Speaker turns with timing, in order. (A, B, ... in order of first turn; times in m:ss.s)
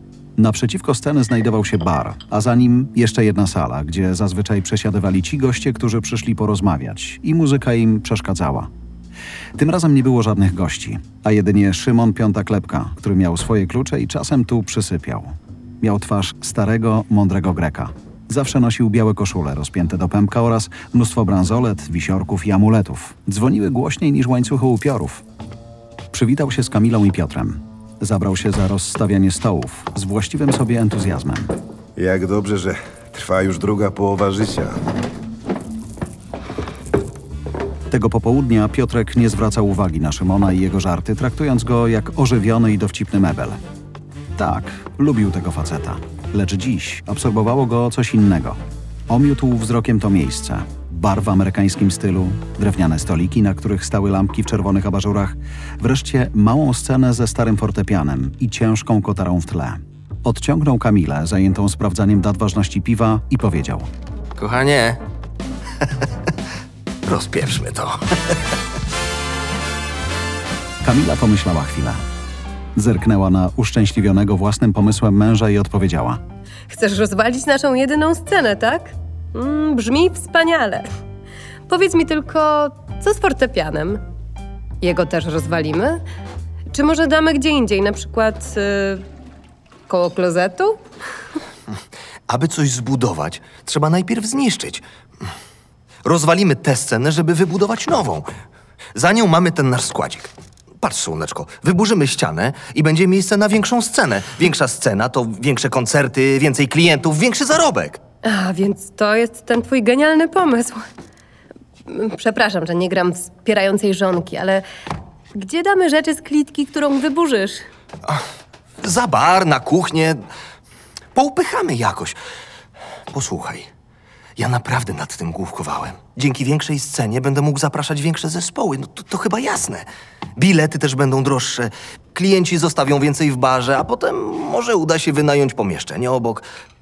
0:00.4-0:08.7 A
0:09.5-0:25.2 A
0:26.1-0:31.5 A
0:32.0-0:34.8 B
0:37.9-0:43.6 A
0:44.4-1:03.9 A
1:04.4-1:05.0 C
1:07.0-1:08.4 C
1:10.8-1:12.0 A
1:12.7-1:16.2 A
1:16.7-1:20.9 D
1:21.7-1:24.0 D
1:24.8-1:26.0 D
1:26.7-1:29.0 D
1:29.9-1:30.8 D
1:32.3-1:35.3 C
1:36.0-1:38.3 C
1:38.9-1:48.0 C
1:48.2-1:50.8 D
1:51.8-1:54.6 D
1:55.3-1:57.6 D
1:58.8-2:00.2 C
2:01.1-2:02.2 C
2:03.1-2:03.7 C
2:04.4-2:16.4 C